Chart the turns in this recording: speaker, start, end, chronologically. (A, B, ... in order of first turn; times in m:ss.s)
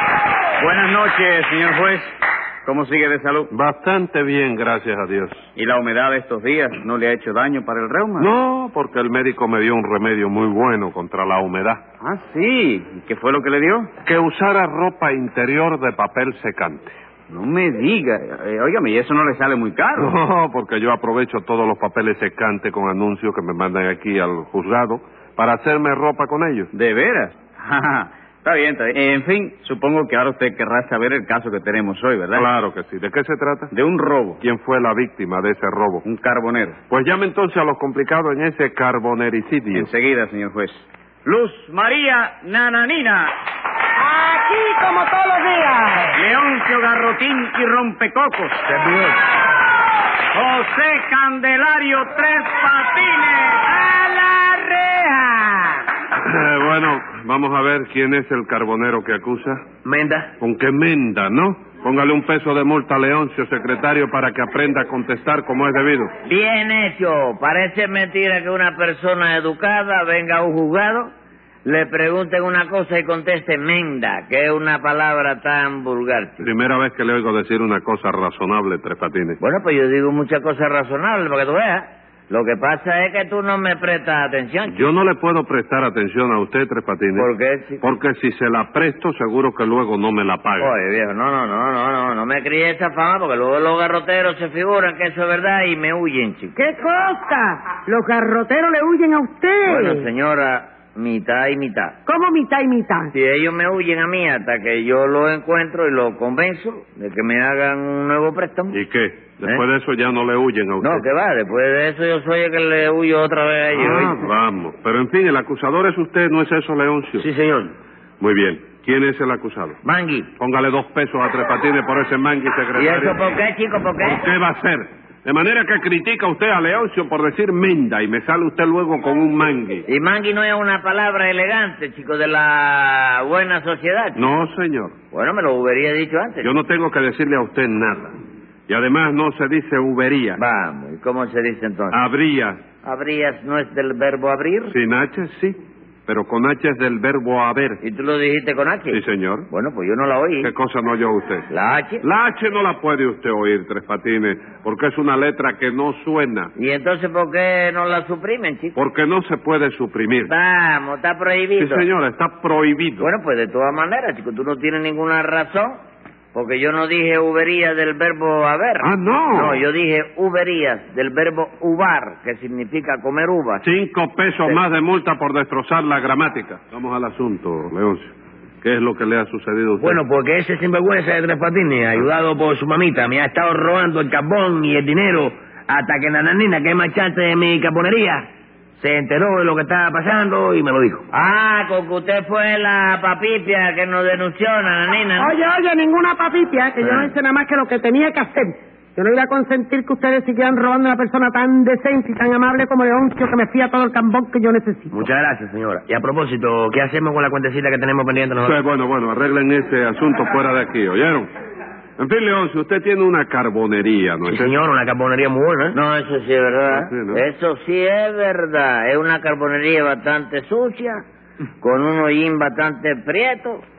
0:00.6-0:02.1 A
0:02.6-0:03.5 A
0:03.5-0:05.5 B
0:05.6-0:08.3 A
0:08.2-0:11.8 B
0:12.0-0:13.9 A
0:14.0-0:17.0 B
0:17.3-0:20.2 A
0:20.0-0:26.7 B
0:26.7-0:32.5 A
0:32.3-0:33.7 B
0:33.7-0:34.4 A
0:34.4-0:36.0 B
0:36.0-0:36.8 A
0:36.9-0:39.9 B
0:39.7-0:43.3 A
0:44.0-0:46.2 C
0:46.2-0:48.7 A
0:48.7-0:49.1 C
0:50.3-0:53.8 A
0:53.7-0:55.8 C
0:56.2-0:59.6 B
0:59.8-1:00.3 D
1:00.4-1:06.1 B
1:06.2-1:11.1 E
1:11.6-1:16.5 E
1:16.4-1:19.4 B
1:19.4-1:24.8 E
1:24.7-1:27.3 B
1:27.2-1:27.8 E
1:27.8-1:30.8 B
1:30.6-1:36.6 E
1:36.6-1:40.1 C
1:39.6-1:42.0 E
1:42.1-1:43.1 C
1:43.1-1:48.8 E
1:48.7-1:51.0 B
1:50.8-1:54.2 E
1:53.7-1:57.3 B
1:57.2-1:57.7 D
1:58.2-1:59.8 B
1:59.8-2:00.3 E
2:00.4-2:03.3 B
2:02.8-2:04.2 E
2:04.0-2:09.9 B
2:09.9-2:14.2 E
2:14.2-2:15.0 B
2:15.1-2:16.5 E
2:16.4-2:18.2 B
2:18.7-2:20.4 B
2:20.4-2:22.0 E
2:21.9-2:22.6 B
2:22.8-2:24.7 E
2:24.7-2:27.8 B
2:27.8-2:30.5 E
2:28.9-2:29.5 B
2:30.4-2:31.5 B
2:31.5-2:32.0 E
2:32.0-2:36.5 B
2:36.6-2:38.8 E
2:38.8-2:40.3 B
2:40.3-2:41.9 E
2:41.6-2:43.1 B
2:43.0-2:45.8 E
2:46.3-2:53.6 E
2:48.8-2:49.7 B
2:53.6-3:00.0 B
2:59.8-3:11.1 D
3:11.1-3:15.3 E
3:15.2-3:25.0 C
3:16.8-3:17.1 E
3:24.9-3:28.6 D
3:28.4-3:31.3 B
3:32.0-3:34.6 B
3:34.3-3:35.8 D
3:35.7-3:41.0 E
3:36.7-3:37.2 B
3:41.6-3:43.6 E